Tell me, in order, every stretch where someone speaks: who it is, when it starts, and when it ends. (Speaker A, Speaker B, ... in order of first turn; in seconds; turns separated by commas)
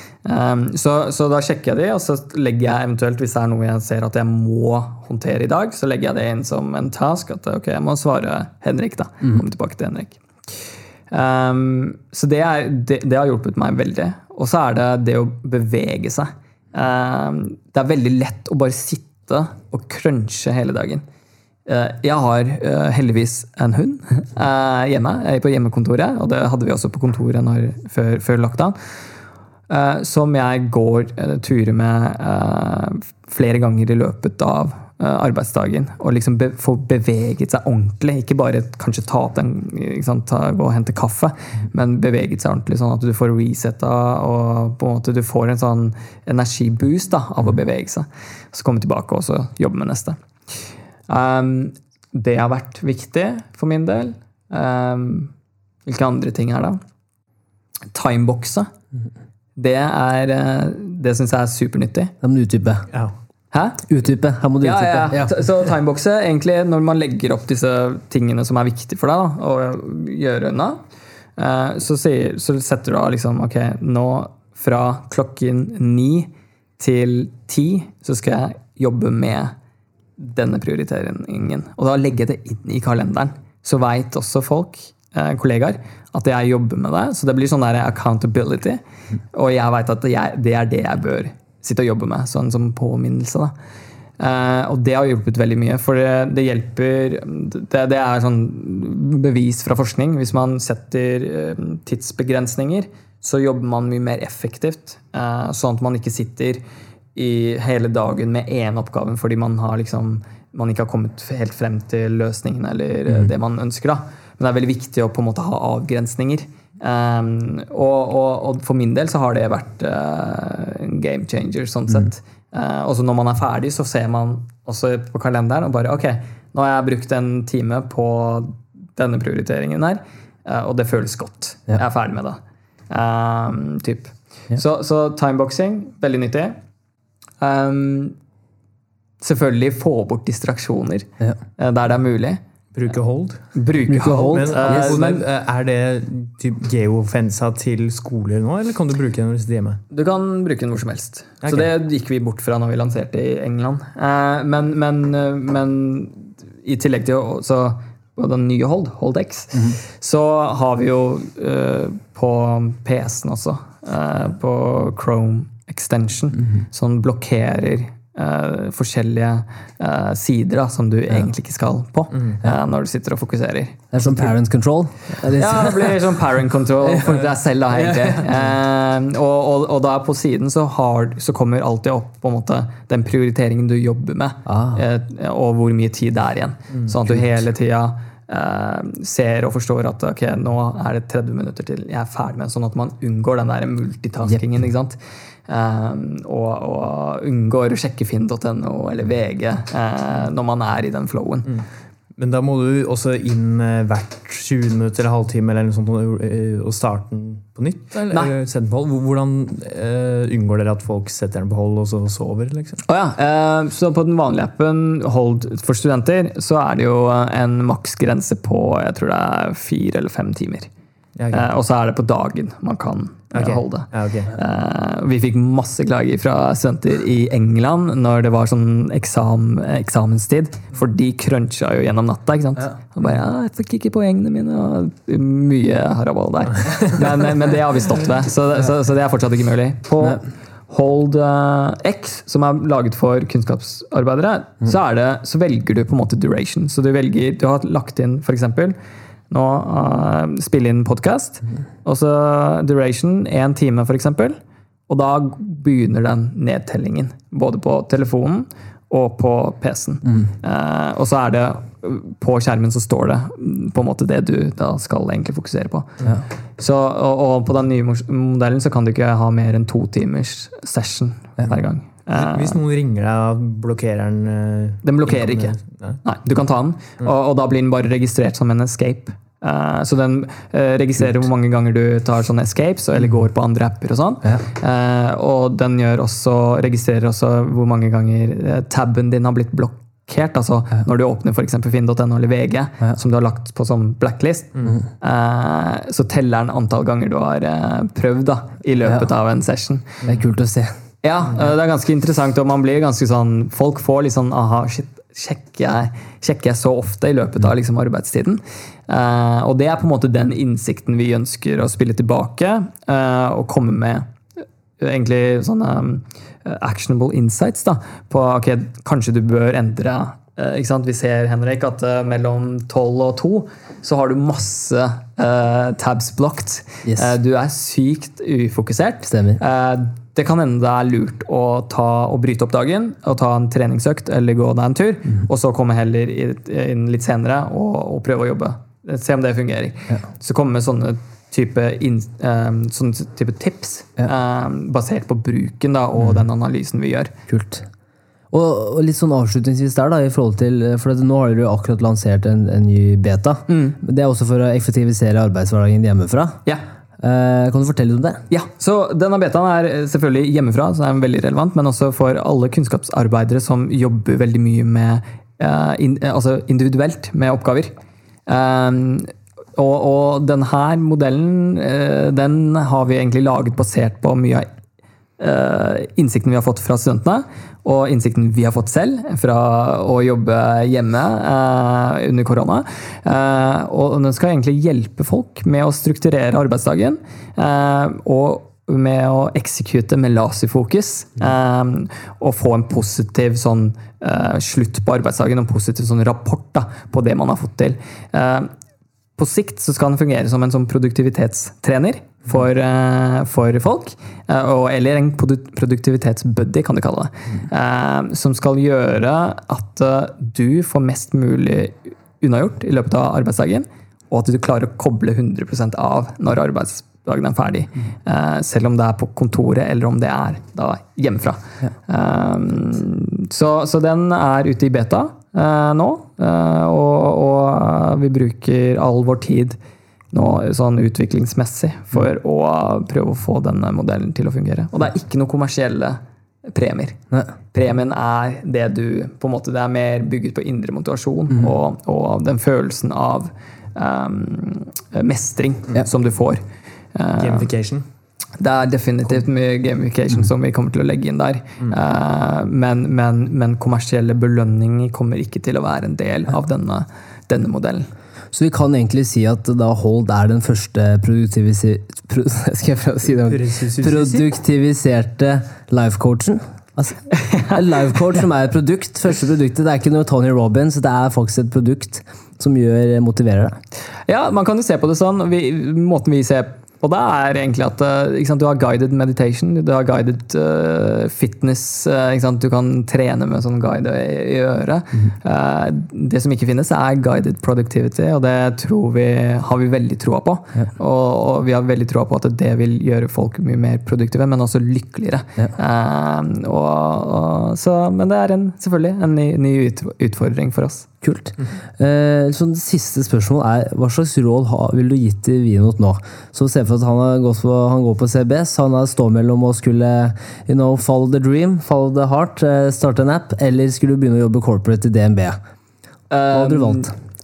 Speaker A: 0.2-10.2, Speaker A: 11.1-21.0, Speaker A: 21.7-28.8, Speaker A: 29.7-50.2, Speaker A: 51.1-55.3, Speaker A: 55.9-56.8, Speaker A: 57.9-58.7, Speaker A: 59.5-62.1, Speaker B: 62.2-62.9, Speaker A: 63.5-63.9, Speaker B: 63.9-65.3, Speaker A: 64.6-70.8, Speaker A: 71.4-79.5, Speaker A: 80.2-88.8, Speaker A: 89.3-93.5, Speaker A: 94.2-106.6, Speaker A: 107.1-136.6, Speaker A: 137.4-138.2, Speaker A: 139.2-142.4, Speaker C: 142.7-143.5, Speaker A: 143.5-145.2, Speaker B: 143.8-145.0, Speaker C: 144.1-149.8, Speaker A: 149.9-174.2, Speaker B: 173.9-176.0, Speaker A: 175.2-201.5, Speaker B: 177.8-178.2, Speaker B: 184.5-184.8, Speaker C: 201.5-212.8, Speaker A: 208.0-208.3, Speaker A: 212.8-220.7, Speaker C: 221.2-221.4, Speaker A: 221.3-248.8, Speaker C: 223.3-224.3, Speaker A: 249.3-266.0, Speaker A: 266.6-272.6, Speaker C: 272.1-276.0, Speaker A: 274.8-300.0, Speaker B: 300.1-300.7, Speaker A: 301.0-314.0, Speaker A: 314.8-347.1, Speaker B: 326.8-327.1, Speaker B: 329.1-329.4, Speaker B: 347.3-347.7, Speaker B: 348.3-356.4, Speaker A: 353.5-353.8, Speaker B: 357.0-358.2, Speaker A: 358.3-367.7, Speaker A: 368.3-374.5, Speaker A: 375.2-398.5, Speaker A: 399.2-429.6, Speaker A: 430.1-437.0, Speaker A: 437.5-446.4, Speaker A: 446.9-447.5, Speaker C: 447.1-447.8, Speaker A: 448.4-457.9, Speaker B: 458.3-473.6, Speaker C: 463.2-464.3, Speaker A: 467.3-467.5, Speaker A: 474.1-500.9, Speaker B: 501.0-515.4, Speaker A: 516.1-516.9, Speaker B: 516.3-516.9